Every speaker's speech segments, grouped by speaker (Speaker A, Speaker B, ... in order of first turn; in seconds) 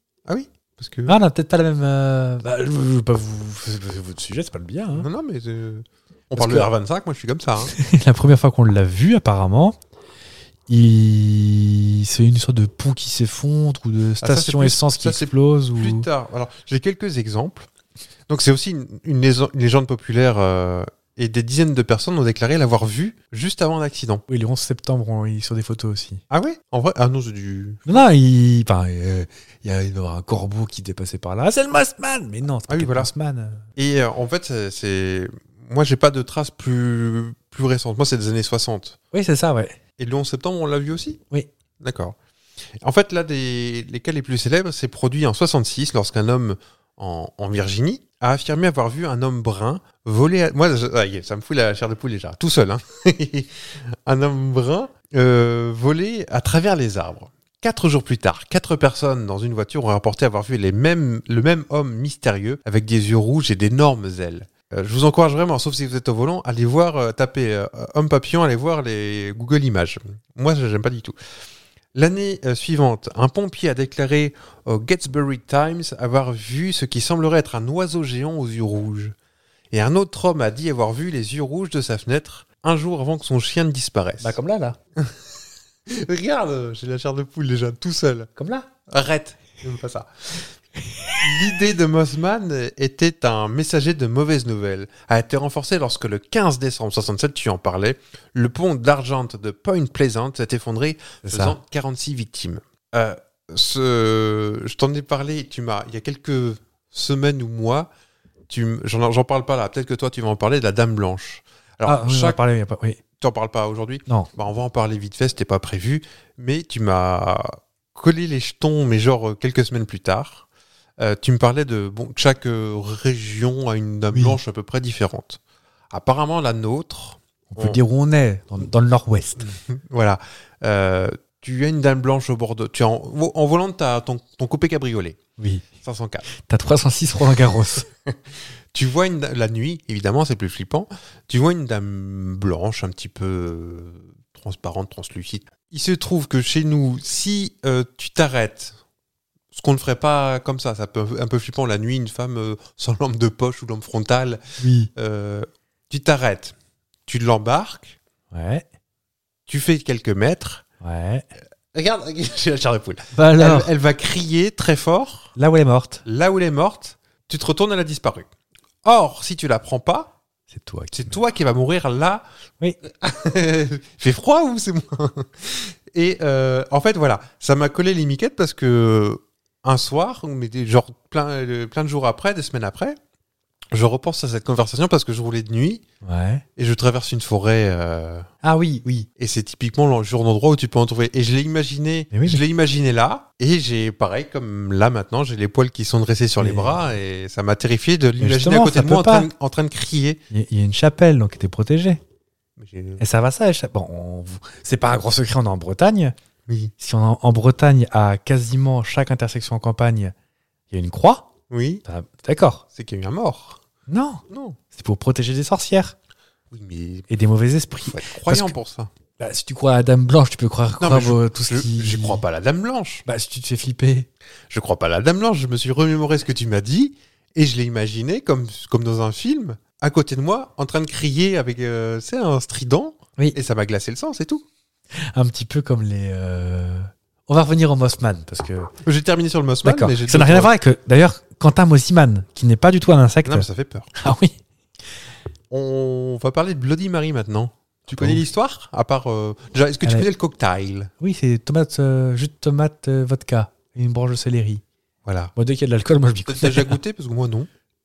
Speaker A: 0.3-1.2, 4.9-7.7, 14.2-17.7, 18.3-24.2, 26.3-28.0, 32.7-33.1, 33.8-39.0, 40.0-41.2, 41.8-42.2, 42.8-71.2, 72.0-79.2, 79.7-84.4, 85.0-85.2, 85.9-88.3, 88.9-90.5, 91.2-107.9, 108.5-112.4, 113.2-120.5, 121.0-125.4, 125.9-127.8, 129.4-135.2, 135.8-136.3, 138.7-148.8, 149.5-154.4, 154.9-156.6, 157.1-158.0, 159.5-160.6, 161.7-165.3, 166.1-168.3, 168.8-170.1, 170.9-172.2, 172.8-183.0, 183.7-185.8, 186.6-188.3, 189.2-200.2, 202.6-203.0, 206.5-206.7, 211.5-211.8, 212.8-213.6, 214.3-214.6, 216.5-217.1, 217.9-218.9, 220.8-223.1, 224.5-234.5, 238.8-240.5, 243.2-243.9, 245.5-250.9, 255.1-255.3, 256.3-257.5
Speaker B: 1.1-5.1, 6.3-6.7, 7.7-9.8, 10.7-16.1, 24.3-26.2, 27.9-33.6, 39.1-39.8, 84.2-84.8, 88.4-88.7, 90.9-91.2, 101.2-101.6, 111.8-113.0, 127.5-129.5, 135.4-135.7, 136.3-137.9, 154.6-154.9, 158.3-158.7, 160.8-161.3, 163.1-163.7, 165.4-166.0, 170.5-171.2, 186.0-186.4, 188.4-189.1, 192.1-192.4, 196.4-196.8, 198.2-199.3, 200.3-202.0, 203.0-206.2, 206.8-210.1, 210.7-211.3, 211.8-212.6, 213.9-215.9, 217.1-218.6, 219.2-222.2, 223.1-224.1, 235.0-238.7, 239.6-244.4, 247.9-248.2, 251.0-254.6, 255.4-256.8